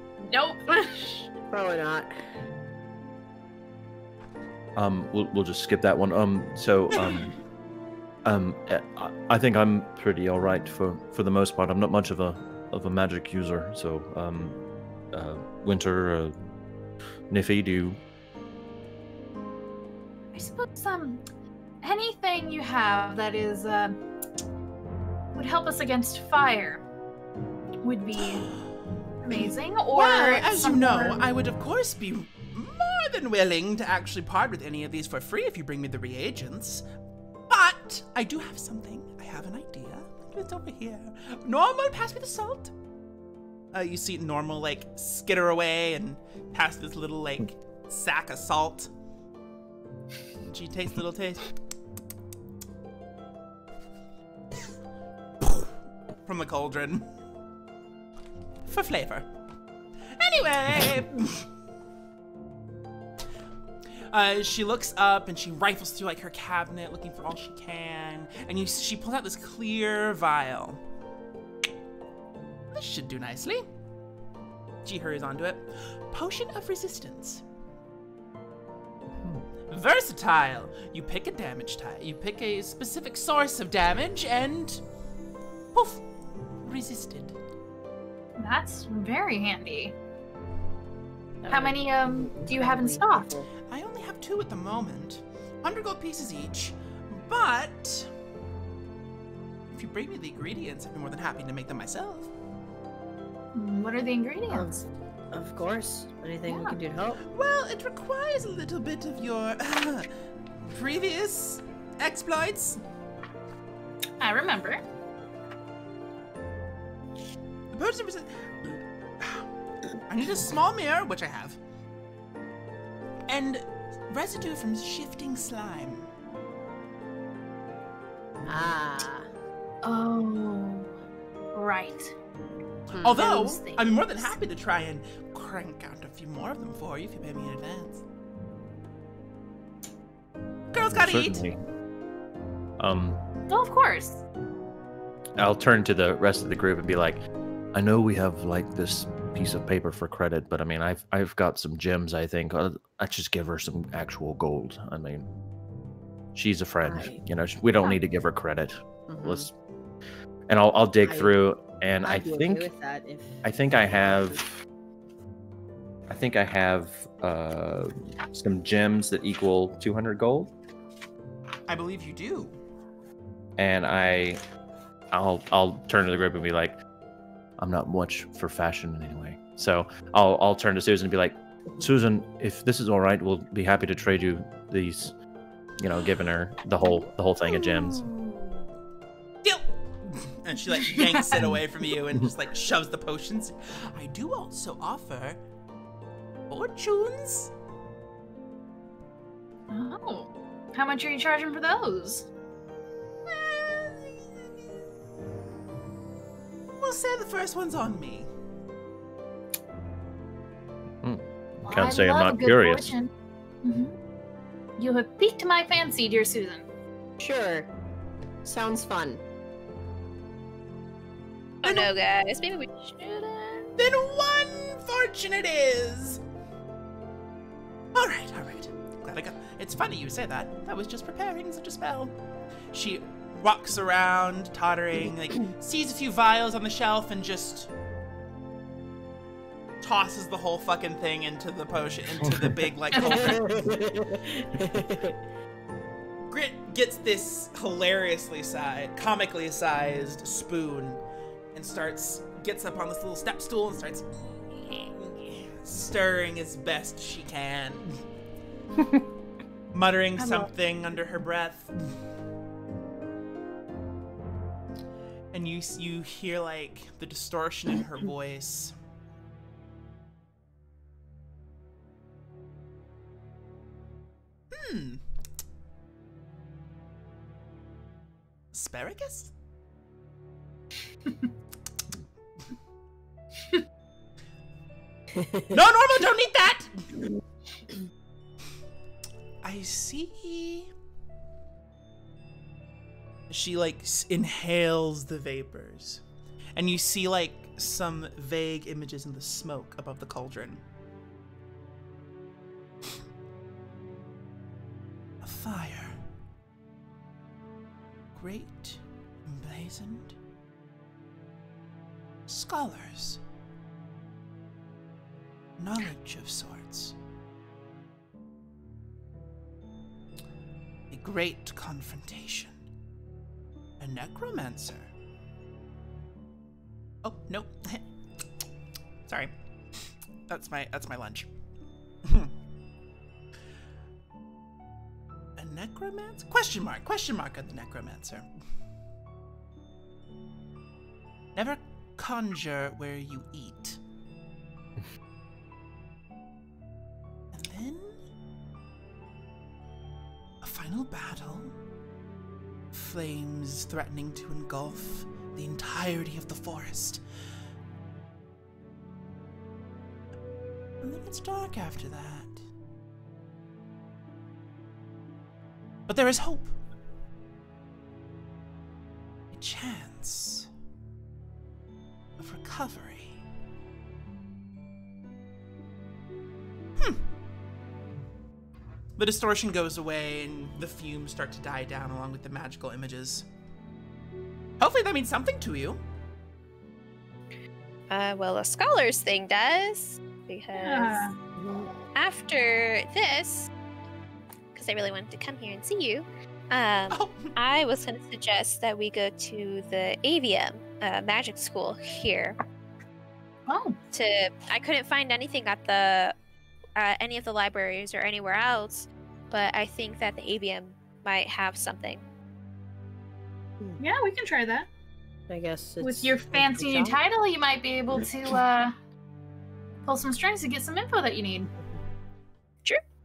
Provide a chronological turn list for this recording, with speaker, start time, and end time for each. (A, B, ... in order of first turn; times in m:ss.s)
0:00.3-0:01.2 A
0:01.5-0:02.1 B
0:04.8-0:07.3 C
0:07.0-0:07.3 D
0:08.2-0:14.6 C
0:15.1-0:16.4 C
0:17.3-0:18.0 C
0:20.3-0:21.2 A
0:21.8-0:24.0 A
0:25.3-0:26.8 A
0:27.8-0:28.5 A
0:28.2-0:28.5 D
0:29.2-0:31.2 A
0:29.3-0:36.9 D
0:37.5-0:42.7 D
0:43.7-0:48.9 D
0:50.4-0:51.4 D
0:55.4-0:55.7 D
0:56.2-0:57.1 D
0:58.7-0:59.3 D
1:00.1-1:01.5 D
1:04.0-1:10.8 D
1:12.7-1:13.6 D
1:14.8-1:17.4 D
1:19.7-1:24.8 D
1:25.7-1:26.0 D
1:26.6-1:27.4 D
1:28.4-1:30.0 A
1:31.4-1:33.5 B
1:31.5-1:33.4 A
1:33.7-1:38.1 D
1:39.7-1:42.3 D
1:43.6-1:44.7 A
1:44.5-1:47.2 B
1:46.5-1:46.8 A
1:47.2-1:50.1 D
1:50.6-1:52.8 D
1:54.2-1:54.8 A
1:57.7-1:59.4 D
2:00.1-2:01.6 D
2:03.3-2:06.1 D
2:08.5-2:09.3 B
2:09.8-2:10.9 A
2:11.5-2:12.2 A
2:12.9-2:13.3 B
2:13.0-2:18.0 D
2:13.1-2:13.9 A
2:20.7-2:21.5 D
2:20.9-2:21.6 C
2:22.8-2:23.2 C
2:23.5-2:24.2 A
2:25.4-2:27.2 C
2:27.7-2:35.3 C
2:36.4-2:39.5 C
2:36.8-2:37.2 B
2:39.1-2:39.5 B
2:40.5-2:42.7 C
2:41.1-2:41.3 B
2:42.0-2:43.3 B
2:43.4-2:44.5 C
2:46.1-2:50.5 C
2:51.7-2:52.6 D
2:53.6-2:54.4 C
2:55.1-2:56.8 C
2:57.6-3:05.1 C
3:05.8-3:08.1 C
3:09.4-3:15.4 D
3:10.9-3:11.4 A
3:16.5-3:17.5 D
3:19.7-3:22.3 A
3:23.3-3:24.3 D
3:26.8-3:28.3 D
3:31.0-3:32.9 C
3:31.6-3:33.1 A
3:33.6-3:34.0 A
3:34.8-3:36.7 A
3:37.2-3:37.7 B
3:38.4-3:39.2 B
3:41.6-3:43.7 E
3:41.6-3:41.9 D
3:43.8-3:46.2 D
3:47.9-3:52.2 D
3:52.7-3:57.7 D
3:59.8-4:03.4 D
4:02.2-4:02.6 C
4:02.9-4:03.4 A
4:03.0-4:05.2 B
4:06.3-4:11.0 D
4:11.5-4:18.0 D
4:19.7-4:21.7 D
4:20.2-4:20.5 A
4:25.3-4:28.7 D
4:34.5-4:35.0 D
4:38.5-4:39.3 D
4:45.2-4:45.6 B
4:45.5-4:46.7 D
4:49.4-4:50.7 D
4:53.3-4:56.0 D
4:56.6-5:00.6 D
5:05.2-5:06.0 D
5:08.1-5:10.2 D
5:12.3-5:13.2 D
5:15.6-5:17.0 D
5:20.9-5:22.5 D
5:23.8-5:24.9 D
5:27.0-5:27.8 D
5:29.1-5:31.3 D
5:32.0-5:32.3 D
5:35.4-5:38.3 D
5:41.4-5:43.8 D
5:47.3-5:48.0 D
5:50.4-5:51.6 D
5:52.7-5:57.0 D
6:00.8-6:02.4 D
6:05.9-6:06.5 D
6:09.3-6:10.5 D
6:12.2-6:13.2 D
6:16.8-6:17.0 D
6:19.0-6:23.3 D
6:24.6-6:25.8 D
6:27.9-6:31.1 E
6:30.6-6:31.2 A
6:31.4-6:31.7 B
6:32.0-6:33.5 E
6:34.5-6:42.4 E
6:36.9-6:37.3 D
6:43.5-6:43.8 A
6:43.9-6:46.2 E
6:46.8-6:52.0 E
6:53.8-6:54.7 A
6:55.3-6:57.0 B
6:55.8-6:58.8 A
6:59.8-7:01.5 A